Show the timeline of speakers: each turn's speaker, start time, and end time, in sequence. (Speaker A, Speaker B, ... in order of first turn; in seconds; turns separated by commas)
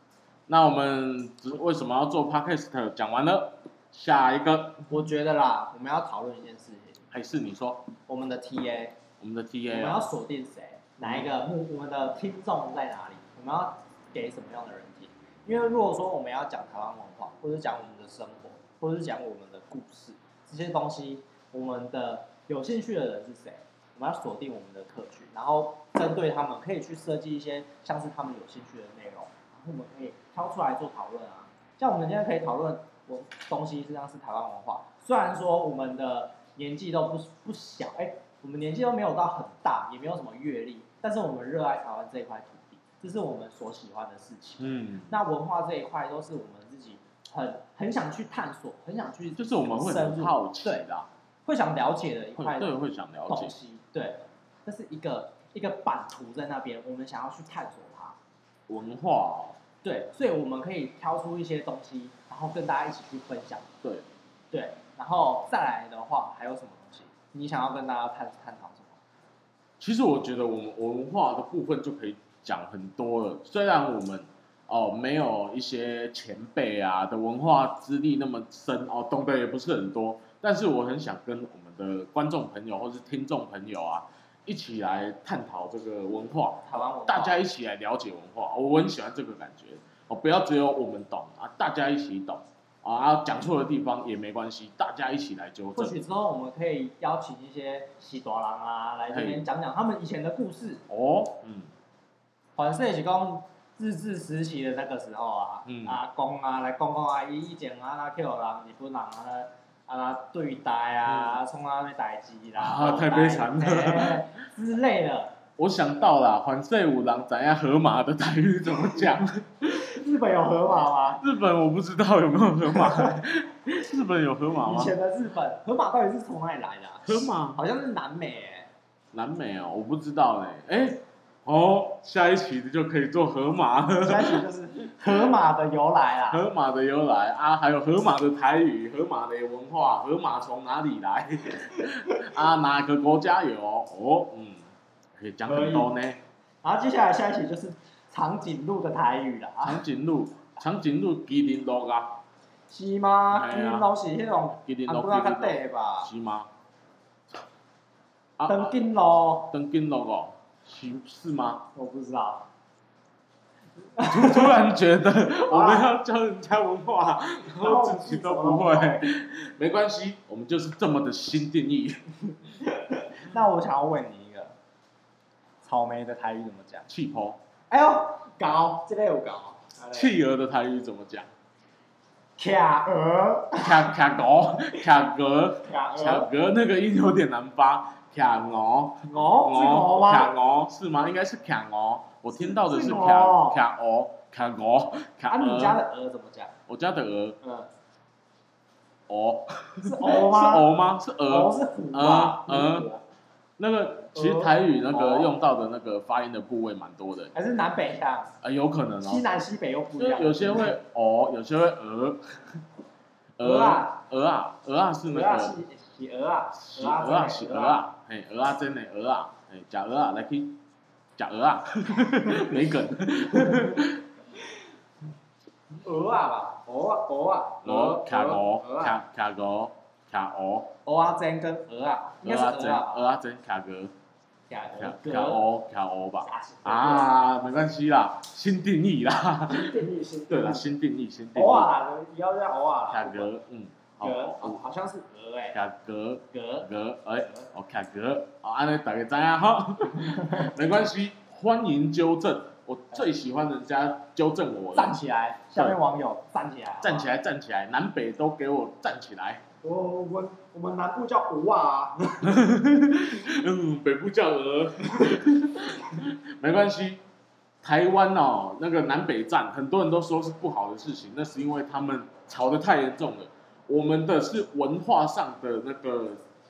Speaker A: 0.5-4.9, Speaker B: 4.9-7.0, Speaker A: 7.1-7.9, Speaker B: 8.1-9.0, Speaker A: 9.2-10.1, Speaker B: 9.7-50.8, Speaker A: 44.6-45.1, Speaker A: 49.4-51.1, Speaker B: 51.5-58.2, Speaker A: 52.4-53.5, Speaker A: 58.7-59.6, Speaker B: 59.8-63.7, Speaker B: 64.5-69.0, Speaker A: 69.8-96.0, Speaker B: 86.7-87.4, Speaker B: 95.8-100.8, Speaker A: 99.1-99.5, Speaker A: 100.9-101.7, Speaker B: 102.6-115.3, Speaker A: 105.7-106.0, Speaker A: 111.1-111.4, Speaker A: 112.6-114.3, Speaker A: 115.6-119.8, Speaker B: 119.7-121.2, Speaker A: 121.2-125.0, Speaker B: 122.7-123.2, Speaker B: 124.6-128.7, Speaker A: 127.1-127.6, Speaker A: 129.1-134.4, Speaker B: 134.0-136.4, Speaker A: 136.3-146.2, Speaker B: 145.5-145.9, Speaker B: 146.6-149.8, Speaker A: 149.6-152.2, Speaker B: 152.7-156.1, Speaker A: 153.3-153.9, Speaker A: 154.6-156.5, Speaker A: 158.4-158.8, Speaker B: 158.5-159.5, Speaker A: 159.5-161.7, Speaker B: 161.8-162.5, Speaker B: 164.0-164.7, Speaker A: 164.1-172.1, Speaker B: 165.3-165.9, Speaker B: 167.6-169.1, Speaker B: 172.6-174.6, Speaker B: 175.6-176.9, Speaker A: 176.9-177.4, Speaker B: 177.7-180.2, Speaker A: 179.9-181.3, Speaker B: 182.4-184.0, Speaker A: 183.6-195.8, Speaker B: 185.6-186.3, Speaker B: 189.1-190.3, Speaker B: 192.4-193.6, Speaker B: 195.3-196.6, Speaker A: 196.7-197.4, Speaker B: 197.4-197.7, Speaker A: 199.1-202.9, Speaker B: 199.8-200.7, Speaker B: 201.3-203.0, Speaker A: 203.6-207.3, Speaker B: 204.1-205.3, Speaker B: 207.3-208.3, Speaker A: 208.4-209.2, Speaker B: 209.0-210.7, Speaker A: 210.0-212.6, Speaker A: 213.4-215.6, Speaker B: 213.4-214.0, Speaker B: 215.1-217.9, Speaker A: 216.6-220.6, Speaker A: 221.2-224.0, Speaker B: 222.0-222.7, Speaker B: 223.3-223.9, Speaker B: 225.8-229.0, Speaker A: 227.6-230.7, Speaker B: 230.9-233.1, Speaker A: 232.2-233.9, Speaker B: 234.5-235.4, Speaker A: 234.8-241.7, Speaker B: 236.2-237.1, Speaker B: 239.5-240.7, Speaker B: 241.3-243.3, Speaker A: 242.9-244.6, Speaker B: 244.0-245.6, Speaker A: 245.5-255.0, Speaker B: 246.3-246.7, Speaker B: 250.1-250.5, Speaker B: 254.8-257.1, Speaker A: 256.8-259.4, Speaker B: 259.6-262.4, Speaker A: 262.3-267.0, Speaker A: 267.6-276.2